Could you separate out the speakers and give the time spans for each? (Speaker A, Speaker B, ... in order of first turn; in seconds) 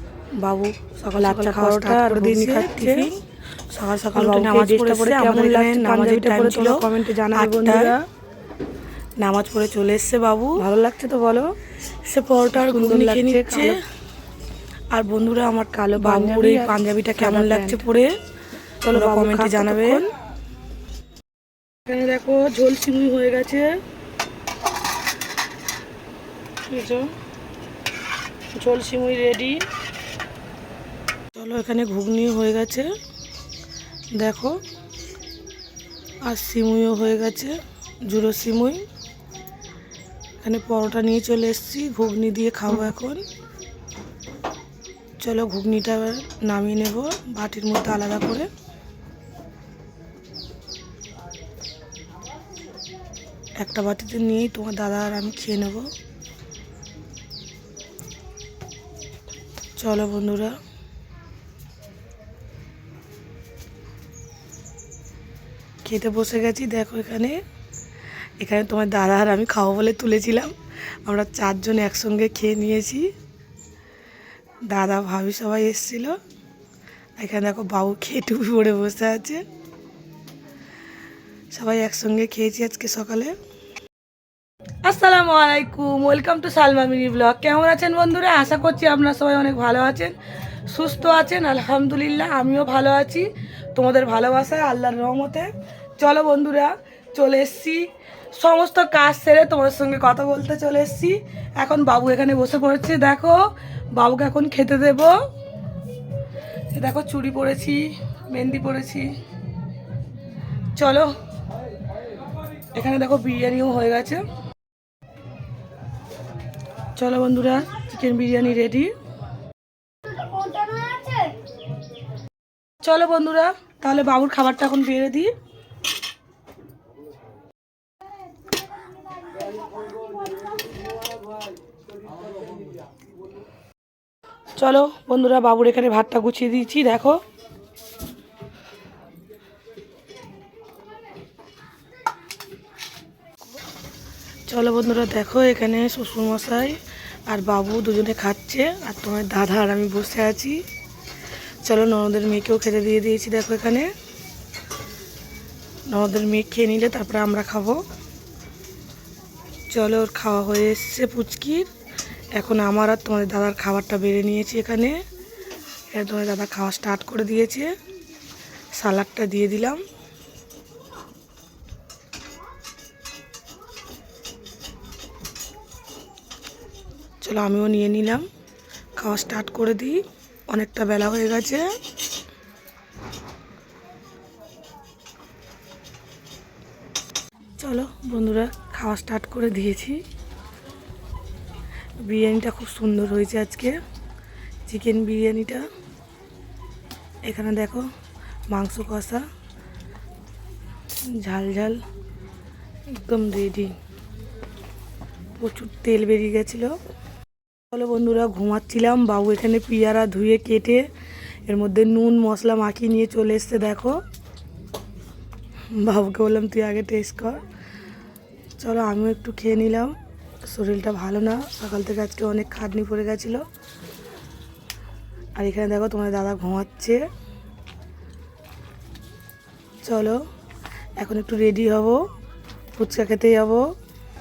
Speaker A: 0.4-3.1, 3.7-7.9, 9.2-10.7, 12.1-13.8, 14.9-18.1, 18.9-20.1, 21.9-23.7, 26.7-27.1, 28.6-29.5, 31.3-32.9, 34.1-34.6, 36.2-38.8, 40.4-43.2, 45.2-48.5, 53.6-55.9, 59.8-60.5, 65.8-67.4, 68.4-73.1, 74.7-76.2, 77.2-79.4, 81.5-83.3, 84.8-90.2, 90.7-105.2, 106.7-109.1, 110.8-111.1, 112.7-114.2, 117.0-118.9, 122.8-125.3, 134.6-137.2, 144.5-150.6, 151.6-153.9, 155.9-157.8, 159.7-161.7, 162.3-165.0, 165.9-167.7, 168.7-169.8, 177.2-178.2, 179.0-181.7, 187.6-190.0, 192.0-193.7, 194.7-195.6, 197.2-197.9, 198.5-199.2, 201.1-201.8, 202.9-203.7, 205.4-206.8, 207.7-210.9, 211.4-214.0, 215.7-217.4, 218.6-223.4, 225.4-227.0, 229.8-230.2, 231.0-232.0, 232.8-233.6
Speaker B: 1.2-3.1, 4.1-8.0, 10.6-11.4, 12.5-13.8, 15.9-17.9, 18.8-20.1